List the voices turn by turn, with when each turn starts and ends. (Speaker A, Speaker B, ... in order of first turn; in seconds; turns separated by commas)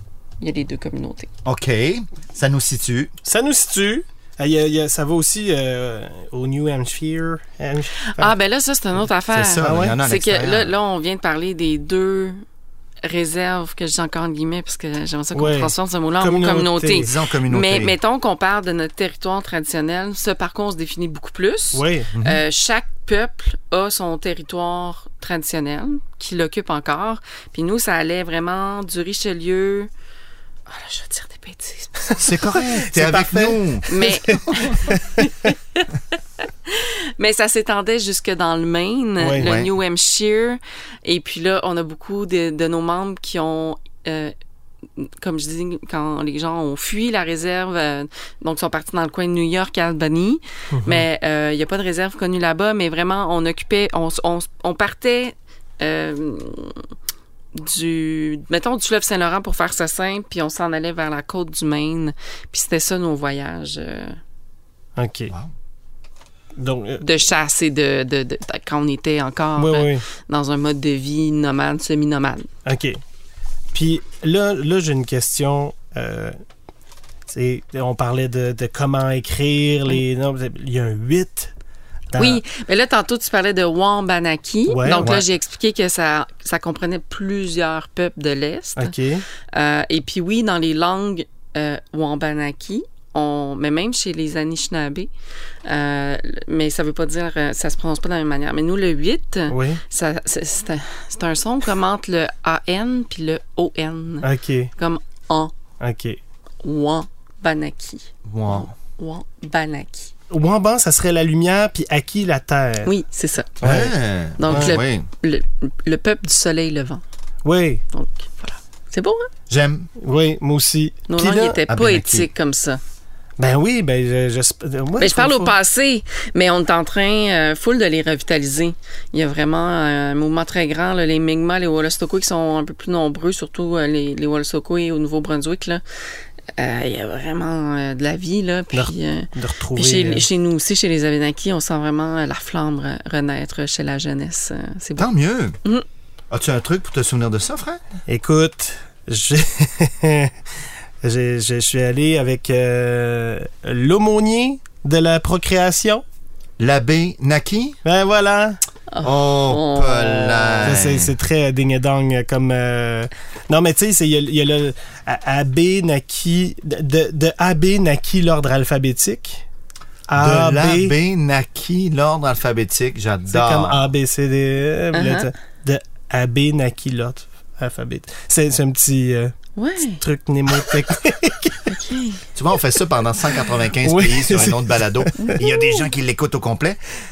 Speaker A: 0.4-1.3, Speaker B: 1.4-3.1, Speaker C: 3.2-8.3, Speaker A: 8.1-12.4, Speaker B: 9.3-10.7, Speaker C: 9.6-10.0, Speaker A: 13.0-29.9, Speaker C: 15.3-17.1, Speaker B: 16.9-17.9, Speaker C: 21.7-22.1, Speaker B: 22.1-22.4, Speaker A: 30.7-32.2, Speaker B: 32.2-33.9, Speaker C: 32.3-35.3, Speaker A: 33.9-35.9, Speaker A: 36.6-44.3, Speaker C: 39.2-39.5, Speaker B: 39.4-39.7, Speaker A: 45.0-56.8, Speaker C: 50.7-51.0, Speaker A: 57.5-64.2, Speaker C: 65.0-65.3, Speaker C: 66.6-67.0, Speaker A: 67.0-72.5, Speaker C: 69.5-70.0, Speaker C: 72.6-73.0, Speaker C: 73.7-76.3, Speaker C: 77.3-81.5, Speaker C: 82.1-82.4, Speaker A: 82.2-88.9, Speaker C: 84.7-85.2, Speaker B: 85.0-85.2, Speaker C: 88.8-89.2, Speaker A: 89.5-95.1, Speaker A: 95.7-105.5, Speaker C: 99.5-99.8, Speaker C: 104.2-104.7, Speaker C: 105.8-106.2, Speaker A: 106.6-110.1, Speaker B: 108.2-108.7, Speaker C: 110.3-112.9, Speaker A: 112.8-113.5, Speaker B: 113.6-115.1, Speaker C: 113.6-113.9, Speaker A: 114.4-117.0, Speaker C: 114.5-114.8, Speaker C: 117.4-117.8, Speaker A: 117.9-119.3, Speaker B: 119.5-119.9, Speaker C: 120.0-121.6, Speaker A: 121.1-122.8, Speaker B: 121.7-122.3, Speaker C: 123.4-125.5, Speaker A: 125.0-135.8, Speaker A: 136.6-145.1, Speaker C: 138.7-140.2, Speaker B: 145.0-145.6, Speaker B: 146.3-147.8, Speaker C: 148.1-150.3, Speaker C: 151.0-156.0, Speaker B: 156.6-157.8, Speaker C: 157.8-158.6, Speaker A: 158.9-160.8, Speaker B: 159.0-161.1, Speaker C: 160.6-169.4, Speaker C: 170.1-170.9, Speaker B: 170.2-173.9, Speaker C: 173.3-181.7, Speaker A: 174.9-175.3, Speaker A: 179.6-180.0, Speaker A: 181.7-182.2, Speaker B: 182.3-186.8, Speaker C: 183.8-185.4, Speaker A: 185.2-185.8